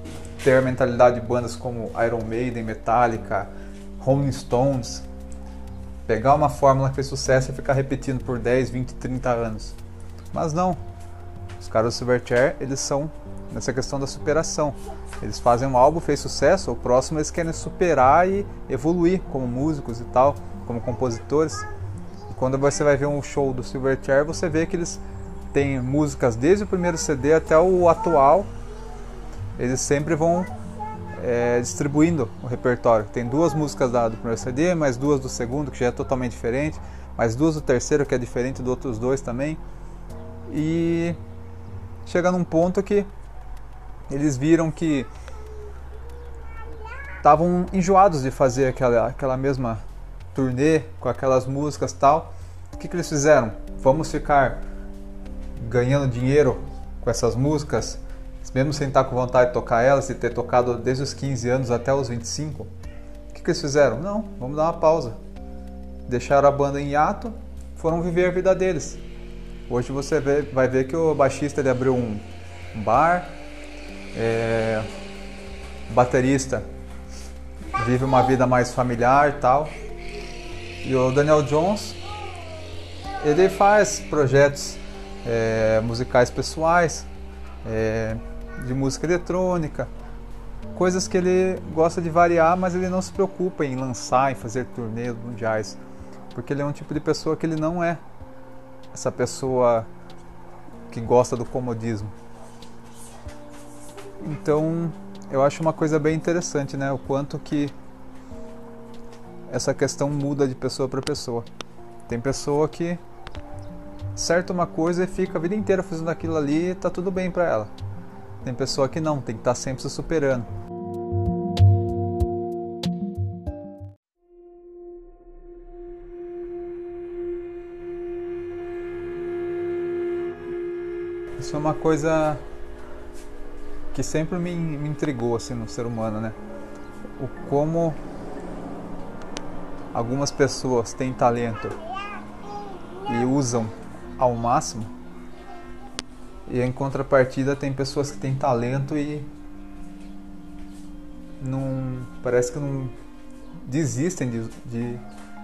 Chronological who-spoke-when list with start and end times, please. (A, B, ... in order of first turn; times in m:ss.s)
0:00.4-0:05.0 A
0:06.1-0:09.8 A
0:10.3-0:10.8 A
0:11.6-0:21.7 A
0:22.3-0:28.5 A
0:29.6-0:30.5 A
0:31.2-0:39.6 A
0:40.5-0:41.2 A
0:42.0-0:43.1 A
0:44.1-0:45.1 A
0:47.2-0:49.8 A
0:50.3-0:54.6 A
0:55.6-1:02.7 A
1:03.3-1:05.2 A
1:06.1-1:09.0 A
1:09.7-1:13.4 A
1:14.1-1:14.9 A
1:15.9-1:16.7 A
1:17.8-1:19.8 A
1:20.8-1:22.0 A
1:23.2-1:27.1 A
1:27.6-1:29.9 A
1:30.7-1:35.8 A
1:36.3-1:38.0 A
1:38.9-1:39.9 A
1:40.9-1:42.1 A
1:44.2-1:47.7 A
1:49.5-1:51.5 A
1:52.1-1:53.0 A
1:54.1-1:57.7 A
1:58.4-2:00.5 A
2:11.4-2:12.4 A
2:13.9-2:16.4 A
2:17.2-2:18.0 A
2:19.9-2:21.8 A
2:23.0-2:24.9 A
2:26.4-2:29.3 A
2:31.4-2:32.9 A
2:33.6-2:35.0 A